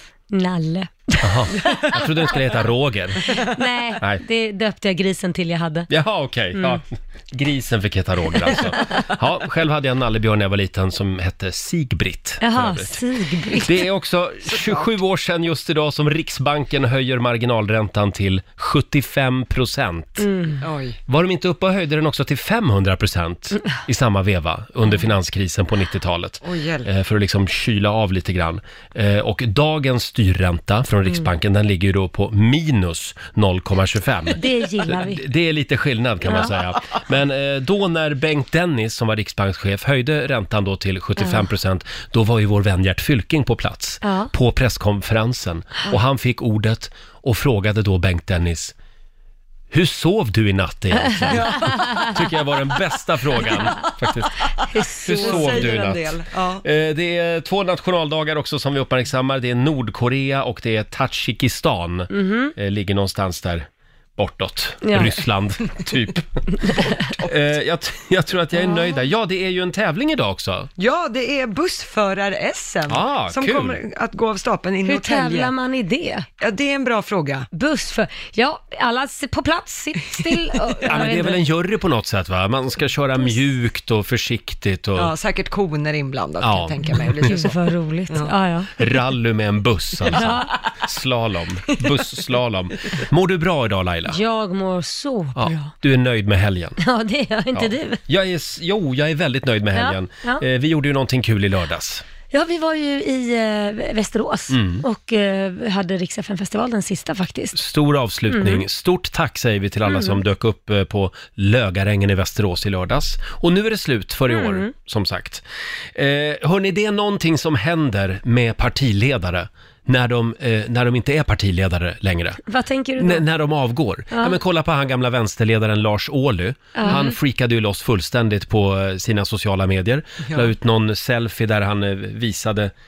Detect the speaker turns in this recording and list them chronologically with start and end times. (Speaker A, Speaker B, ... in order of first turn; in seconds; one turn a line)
Speaker A: 0.3-2.4
Speaker B: 1.2-3.3
Speaker A: 3.3-5.9
Speaker B: 5.9-13.0
Speaker A: 12.4-13.8
Speaker B: 13.6-20.2
Speaker C: 14.5-14.9
Speaker A: 20.2-20.6
Speaker C: 20.6-21.0
Speaker B: 21.1-48.7
Speaker C: 26.4-26.9
Speaker A: 34.4-35.2
Speaker A: 36.3-36.5
Speaker A: 41.2-41.4
Speaker A: 44.0-44.3
Speaker B: 49.7-56.0
Speaker A: 51.0-52.1
Speaker C: 51.3-52.2
Speaker A: 54.7-55.8
Speaker C: 55.1-56.6
Speaker B: 56.6-70.7
Speaker A: 62.1-62.5
Speaker A: 64.8-65.2
Speaker A: 68.5-69.0
Speaker C: 70.8-75.5
Speaker B: 72.9-73.8
Speaker A: 74.8-76.2
Speaker C: 76.4-77.5
Speaker A: 77.5-81.4
Speaker C: 80.6-81.0
Speaker B: 80.9-85.1
Speaker C: 85.0-87.6
Speaker B: 86.4-87.3
Speaker A: 87.2-88.7
Speaker B: 88.8-94.2
Speaker A: 90.1-90.6
Speaker A: 94.1-95.7
Speaker B: 95.3-96.8
Speaker A: 96.8-98.0
Speaker B: 97.5-102.0
Speaker A: 99.8-100.4
Speaker A: 102.3-107.5
Speaker B: 104.5-104.8
Speaker B: 107.5-115.4
Speaker A: 108.3-108.6
Speaker A: 109.8-110.2
Speaker A: 114.3-114.7
Speaker B: 115.9-122.4
Speaker A: 122.5-123.2
Speaker B: 123.0-132.7
Speaker A: 124.1-124.4
Speaker A: 126.8-127.1